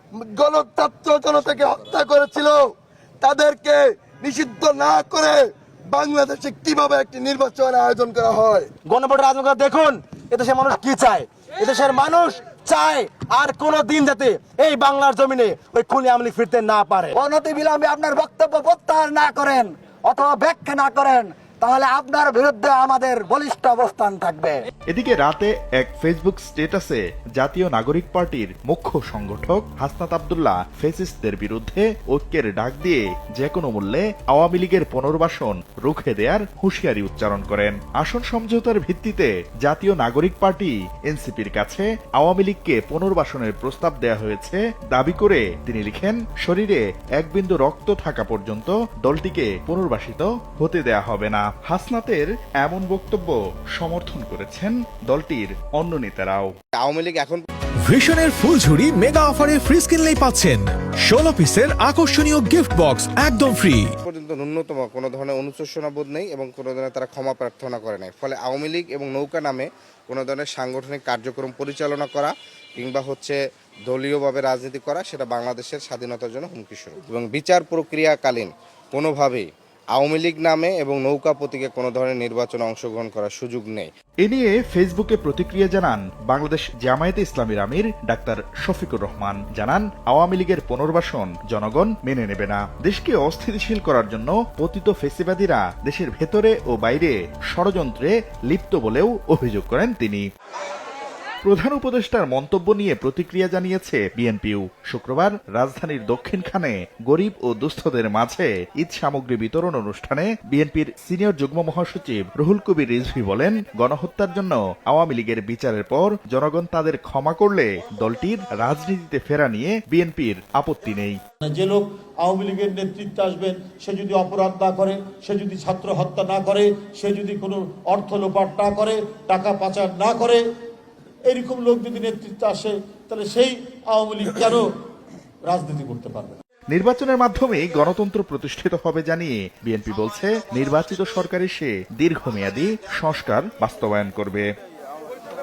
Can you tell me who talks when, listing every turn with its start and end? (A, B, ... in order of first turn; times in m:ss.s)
0:00.2-0:08.7 A
0:08.8-0:17.2 B
0:12.6-0:13.0 C
0:17.2-0:24.6 C
0:24.9-0:56.5 D
0:56.8-0:57.4 E
0:57.9-1:03.9 F
1:04.0-1:13.4 E
1:13.9-1:19.4 E
1:20.0-1:23.9 E
1:24.2-1:40.3 D
1:41.4-2:01.2 D
2:01.4-2:10.4 G
2:11.3-2:14.7 G
2:15.5-2:16.4 G
2:16.7-2:24.5 D